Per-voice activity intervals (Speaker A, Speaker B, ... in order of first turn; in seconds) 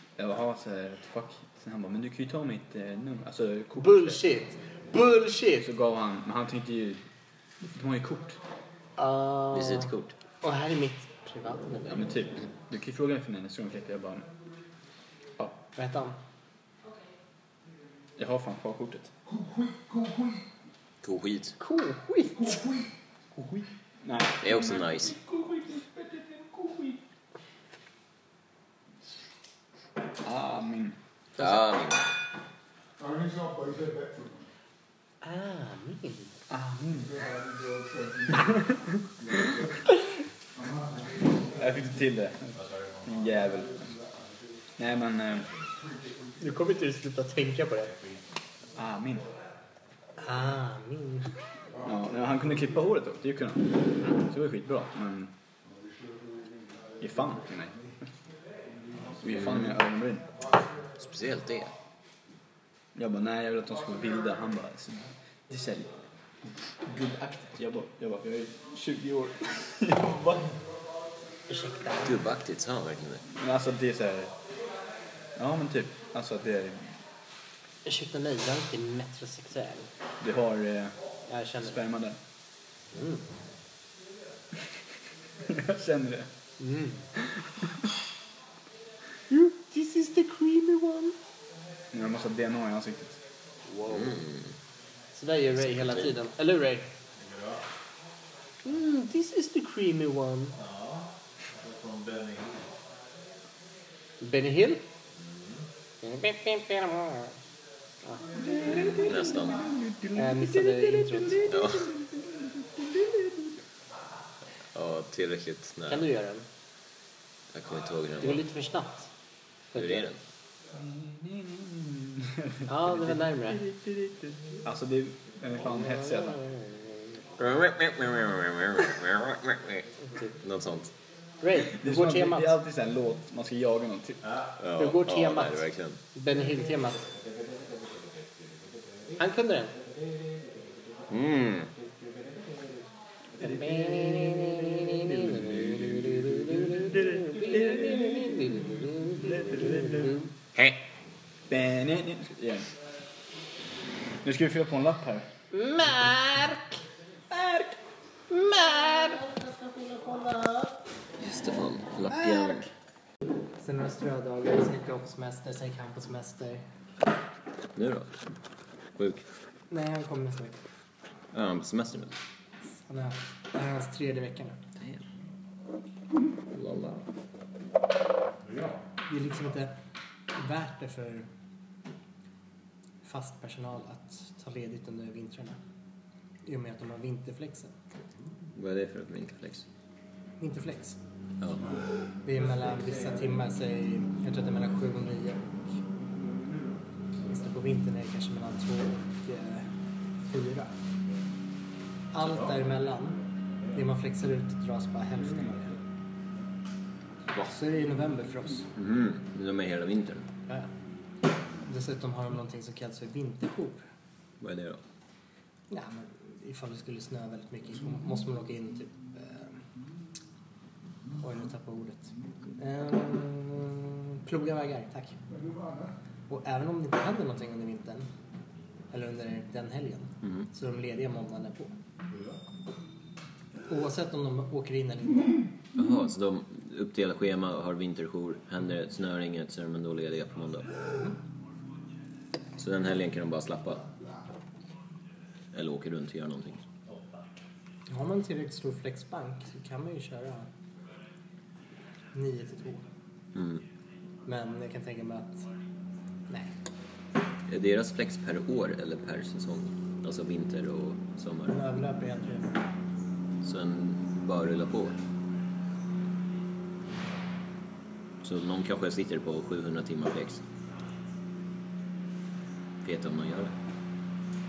Speaker A: 0.2-4.2, 5.6-7.0, 7.6-8.4, 11.8-14.3, 18.2-19.1, 23.4-24.8, 30.2-30.9, 36.5-37.0, 41.6-43.8, 44.8-45.5, 48.8-49.2, 51.9-55.3, 57.0-57.7, 59.2-60.2, 63.0-65.9, 66.8-70.5, 73.3-74.3, 75.4-76.8, 80.2-80.9, 81.6-82.2, 85.4-86.3, 91.9-93.2, 120.9-122.6, 124.6-126.3, 131.7-134.2, 146.9-148.2, 149.2-150.1, 151.5-152.7, 154.2-155.2
Speaker B: 3.8-5.7, 9.0-9.9, 10.4-12.0, 15.8-16.1, 21.6-22.6, 35.2-36.3, 46.4-47.9, 50.2-51.3, 71.5-72.2, 77.8-79.9, 81.3-81.8, 82.9-83.2, 86.6-87.0, 89.3-91.2, 93.7-94.2, 95.1-96.9, 98.6-100.5, 104.2-104.8, 106.0-107.3, 110.1-111.6, 115.9-116.5, 118.2-119.1, 119.7-120.1, 122.7-123.6, 125.8-126.8, 131.4-132.6, 134.8-137.1, 139.2-139.8, 143.4-150.2, 155.5-156.7, 158.3-160.8, 162.2-162.5, 163.6-166.6, 169.7-170.6, 172.8-174.6, 179.1-179.7, 180.3-181.3, 183.0-185.6, 186.4-187.7, 190.4-191.0, 192.2-195.7, 197.3-199.7, 200.3-200.7, 202.1-203.2, 203.7-205.8, 207.3-208.7, 211.6-213.8, 215.7-219.6, 221.2-225.2, 226.3-228.1, 228.9-231.7, 233.7-235.4, 247.9-250.5, 252.1-252.8, 254.2-255.4, 261.5-262.5
Speaker C: 9.5-10.1, 21.0-21.6, 24.4-25.1, 31.4-32.1, 61.0-61.7, 72.0-73.2, 93.9-94.5, 95.6-96.1, 108.6-109.6, 111.5-111.9, 114.7-116.1, 117.5-118.4, 119.7-120.2, 127.4-129.8, 130.4-130.9, 134.6-136.0, 141.1-141.7, 161.2-162.7, 167.8-168.1, 169.0-169.2, 171.3-172.1, 174.8-175.0, 176.5-177.0, 188.5-189.6, 191.4-191.7, 208.8-210.3, 214.4-214.8, 235.8-240.7, 242.6-243.8, 245.5-246.6, 253.3-253.6, 257.5-261.5, 263.4-265.0, 268.2-270.4, 272.8-273.5
Speaker D: 19.2-20.4, 22.3-22.9, 33.0-34.5, 36.9-39.9, 40.5-41.8, 43.6-44.6, 45.8-46.5, 51.7-52.1, 55.9-57.0, 225.3-225.9
Speaker E: 42.5-43.1, 47.9-48.2, 97.2-97.6, 100.6-102.7, 105.2-105.6, 178.5-178.8